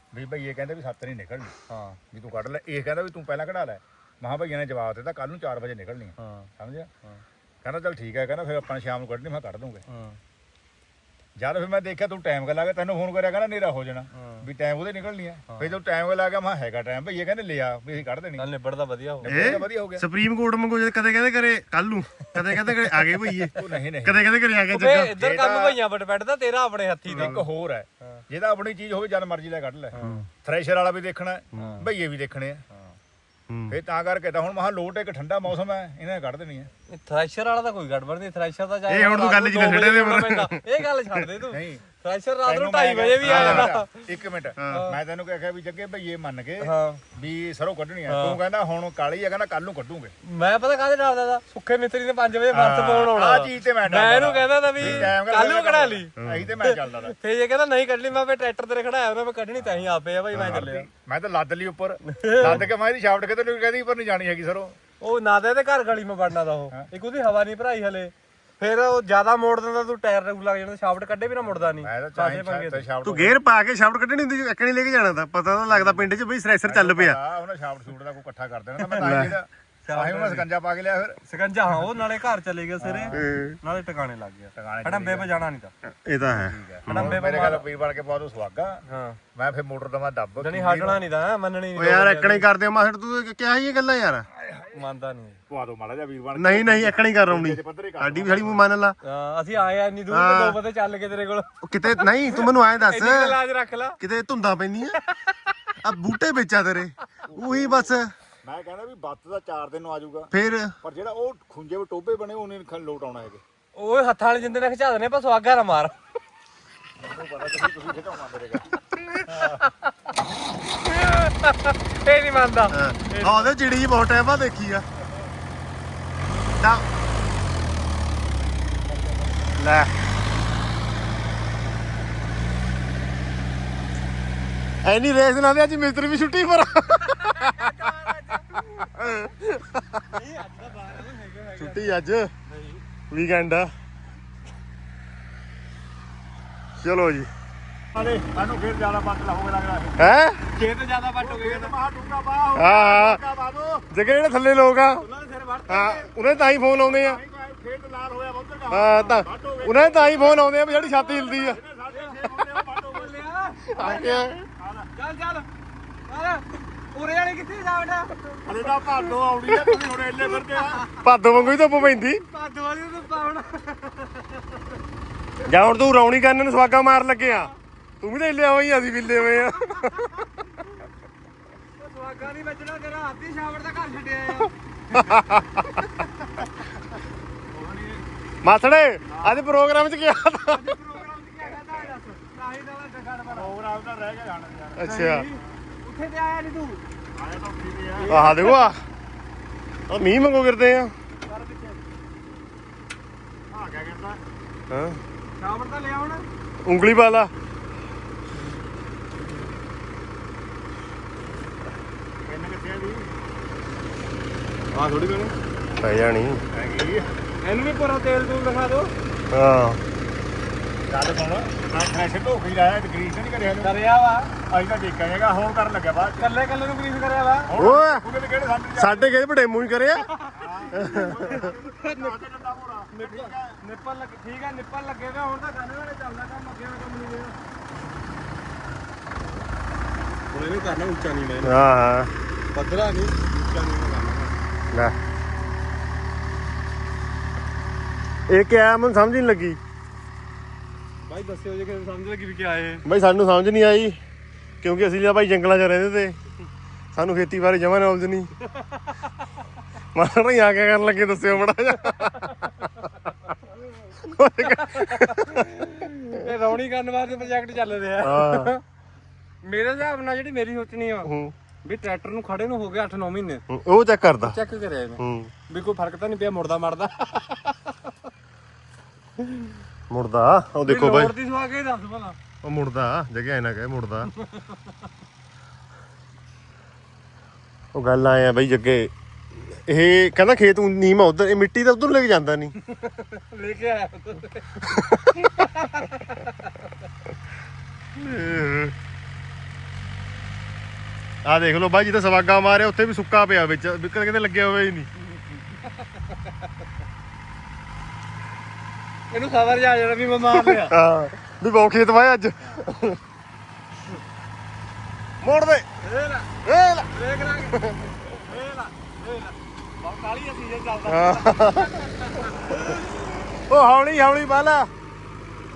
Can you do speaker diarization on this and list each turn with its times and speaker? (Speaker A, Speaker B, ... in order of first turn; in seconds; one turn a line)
Speaker A: 0.1-1.6
Speaker B: 1.7-2.0
Speaker A: 2.1-6.9
Speaker B: 6.2-6.5
Speaker A: 7.6-9.8
Speaker B: 9.9-10.2
Speaker A: 11.4-18.5
Speaker B: 14.2-14.4
Speaker B: 18.4-19.5
Speaker A: 19.2-20.0
Speaker C: 19.3-25.1
Speaker A: 23.5-24.2
Speaker B: 24.7-27.4
Speaker A: 25.1-25.8
Speaker C: 27.1-27.4
Speaker A: 27.1-32.6
Speaker B: 29.9-30.2
Speaker C: 30.0-30.3
Speaker C: 31.5-31.8
Speaker B: 31.6-31.8
Speaker C: 33.5-33.7
Speaker A: 33.7-36.7
Speaker B: 36.9-43.9
Speaker C: 38.9-41.2
Speaker A: 41.5-41.8
Speaker A: 42.5-50.1
Speaker C: 43.2-43.7
Speaker B: 44.7-45.0
Speaker B: 46.6-47.0
Speaker B: 48.1-48.4
Speaker B: 50.2-60.9
Speaker A: 52.5-57.1
Speaker C: 56.2-56.5
Speaker A: 59.8-64.8
Speaker B: 62.1-62.6
Speaker B: 65.0-72.8
Speaker A: 71.7-73.3
Speaker C: 73.0-77.2
Speaker A: 75.7-76.1
Speaker A: 76.6-81.2
Speaker B: 78.9-79.2
Speaker C: 79.0-79.3
Speaker B: 79.8-80.5
Speaker B: 81.2-85.7
Speaker A: 82.8-83.2
Speaker C: 83.1-83.6
Speaker A: 84.5-85.3
Speaker C: 86.0-87.2
Speaker A: 86.3-91.0
Speaker B: 86.9-87.6
Speaker B: 88.9-89.2
Speaker B: 90.4-92.5
Speaker C: 91.7-94.2
Speaker A: 94.4-94.8
Speaker B: 94.7-95.4
Speaker A: 95.5-98.6
Speaker C: 96.3-99.0
Speaker B: 99.0-104.0
Speaker C: 100.1-100.6
Speaker C: 101.6-103.4
Speaker C: 104.0-105.0
Speaker B: 104.9-105.7
Speaker C: 105.8-108.1
Speaker B: 107.3-107.7
Speaker A: 108.4-110.3
Speaker C: 110.3-110.7
Speaker A: 110.8-113.4
Speaker B: 113.7-115.9
Speaker A: 117.0-119.5
Speaker B: 119.1-119.9
Speaker B: 120.8-123.5
Speaker C: 122.7-124.8
Speaker C: 126.6-126.8
Speaker C: 129.6-129.9
Speaker C: 134.8-137.9
Speaker B: 137.2-139.2
Speaker C: 138.5-140.1
Speaker B: 140.1-142.8
Speaker C: 141.6-142.3
Speaker C: 143.1-143.7
Speaker C: 146.8-147.3
Speaker A: 147.9-150.1
Speaker C: 150.0-150.4
Speaker B: 150.5-151.7
Speaker A: 151.2-153.9
Speaker C: 152.5-153.2
Speaker C: 153.9-155.1
Speaker B: 155.0-156.1
Speaker C: 155.7-157.2
Speaker A: 156.8-160.5
Speaker C: 158.7-161.6
Speaker B: 160.7-164.3
Speaker A: 161.2-163.2
Speaker C: 163.7-164.4
Speaker A: 164.6-164.9
Speaker B: 164.9-165.5
Speaker B: 166.1-168.5
Speaker A: 168.4-170.9
Speaker C: 169.4-169.7
Speaker B: 170.6-171.0
Speaker C: 171.0-172.2
Speaker B: 172.2-174.7
Speaker C: 175.4-177.5
Speaker C: 178.0-180.2
Speaker B: 179.3-180.2
Speaker B: 181.8-186.4
Speaker C: 184.9-185.8
Speaker A: 187.5-188.0
Speaker C: 188.4-190.8
Speaker A: 189.1-189.5
Speaker B: 190.4-193.5
Speaker A: 193.3-195.5
Speaker C: 194.8-195.3
Speaker B: 194.8-196.8
Speaker A: 197.1-198.3
Speaker B: 198.0-198.7
Speaker C: 198.1-198.8
Speaker C: 199.9-200.9
Speaker B: 201.2-201.8
Speaker A: 203.5-204.2
Speaker C: 204.7-205.0
Speaker B: 205.3-206.2
Speaker C: 206.7-207.3
Speaker A: 212.3-213.1
Speaker B: 214.7-215.3
Speaker C: 215.8-216.4
Speaker A: 216.5-217.0
Speaker B: 217.4-218.9
Speaker C: 219.3-219.8
Speaker A: 220.9-223.8
Speaker B: 223.6-224.3
Speaker A: 224.5-226.3
Speaker B: 226.2-227.5
Speaker A: 227.5-229.1
Speaker C: 227.6-228.0
Speaker C: 228.8-230.1
Speaker B: 230.1-232.2
Speaker A: 230.3-233.6
Speaker C: 230.8-231.3
Speaker B: 232.9-237.3
Speaker B: 240.3-241.6
Speaker C: 241.4-242.1
Speaker B: 242.5-244.4
Speaker C: 244.7-244.9
Speaker C: 248.3-249.6
Speaker B: 251.0-252.8
Speaker C: 252.8-254.0
Speaker C: 254.6-256.2
Speaker C: 256.9-258.3
Speaker B: 258.5-259.1
Speaker C: 259.9-262.7
Speaker C: 263.9-266.2
Speaker B: 264.5-268.6
Speaker C: 268.0-268.5
Speaker B: 269.4-271.1
Speaker C: 271.0-271.3
Speaker B: 271.6-273.4
Speaker C: 273.5-274.4
Speaker B: 274.2-277.8
Speaker C: 275.0-275.3
Speaker C: 279.9-281.1
Speaker B: 280.6-282.1
Speaker C: 282.4-284.1
Speaker B: 284.2-284.6
Speaker C: 287.7-292.6
Speaker B: 292.7-294.7
Speaker C: 294.6-295.5
Speaker B: 295.4-296.6
Speaker C: 297.9-298.7
Speaker C: 301.2-304.9
Speaker B: 309.1-310.8
Speaker C: 310.3-313.0
Speaker C: 315.2-315.7
Speaker B: 315.8-316.4
Speaker C: 316.4-316.9
Speaker B: 316.9-323.0
Speaker C: 317.5-317.9
Speaker C: 320.9-321.8
Speaker C: 323.4-324.7